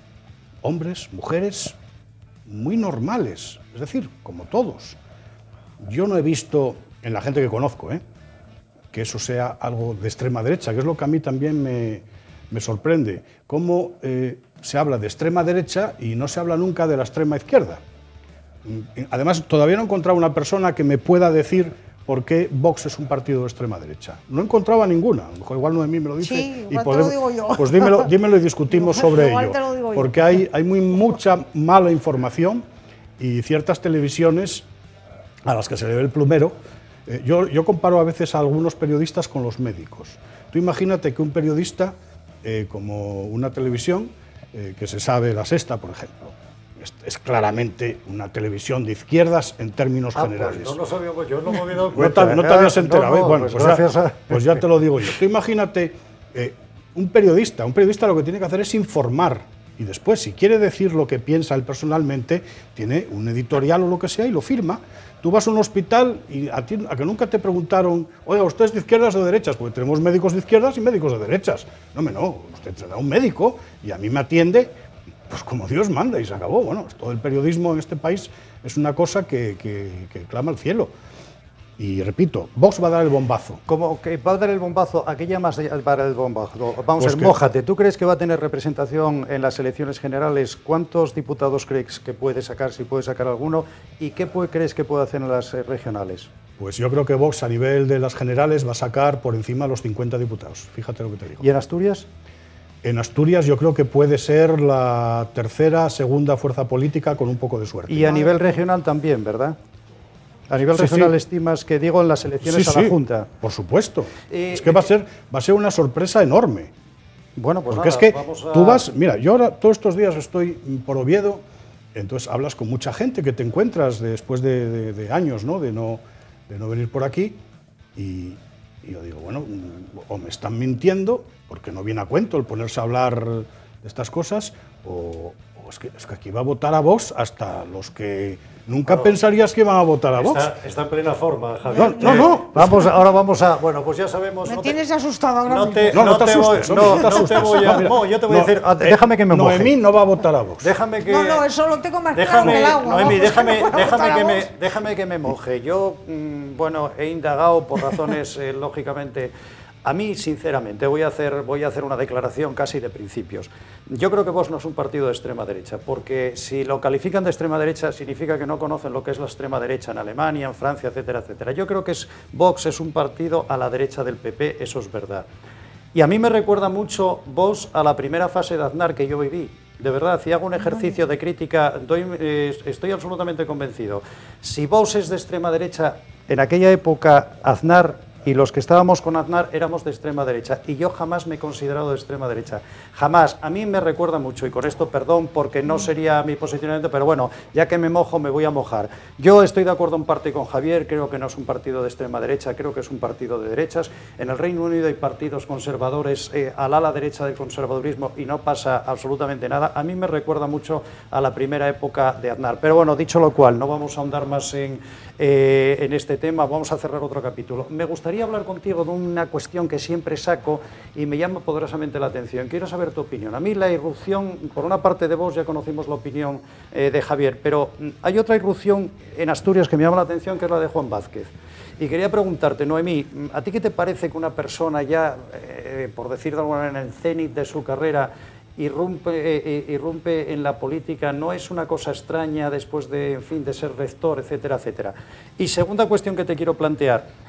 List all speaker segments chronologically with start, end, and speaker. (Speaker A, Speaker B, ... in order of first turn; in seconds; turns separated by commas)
Speaker A: 0.6-1.8, Speaker A: 2.5-5.0, Speaker A: 5.8-8.0, Speaker A: 8.9-17.8, Speaker A: 18.6-32.6, Speaker B: 26.2-28.1, Speaker B: 28.7-30.2, Speaker A: 33.2-34.6, Speaker A: 35.4-36.5, Speaker A: 37.0-50.8, Speaker C: 50.1-54.6, Speaker A: 51.9-74.7, Speaker A: 75.3-80.9, Speaker A: 81.8-83.6, Speaker C: 83.7-96.3, Speaker A: 87.0-87.3, Speaker A: 96.6-101.5, Speaker C: 101.4-102.1, Speaker A: 102.8-108.3, Speaker C: 107.9-109.5, Speaker C: 110.5-113.3, Speaker A: 110.7-111.1, Speaker A: 112.4-116.7, Speaker C: 114.3-114.9, Speaker C: 117.3-118.8, Speaker A: 117.7-127.4, Speaker A: 128.0-140.4, Speaker C: 140.2-144.8, Speaker B: 141.7-142.3, Speaker A: 141.8-142.6, Speaker B: 144.4-146.0, Speaker C: 145.4-149.7, Speaker A: 145.9-150.7, Speaker C: 150.6-151.4, Speaker B: 151.1-154.4, Speaker C: 152.1-159.3, Speaker C: 159.8-175.2, Speaker C: 175.9-247.1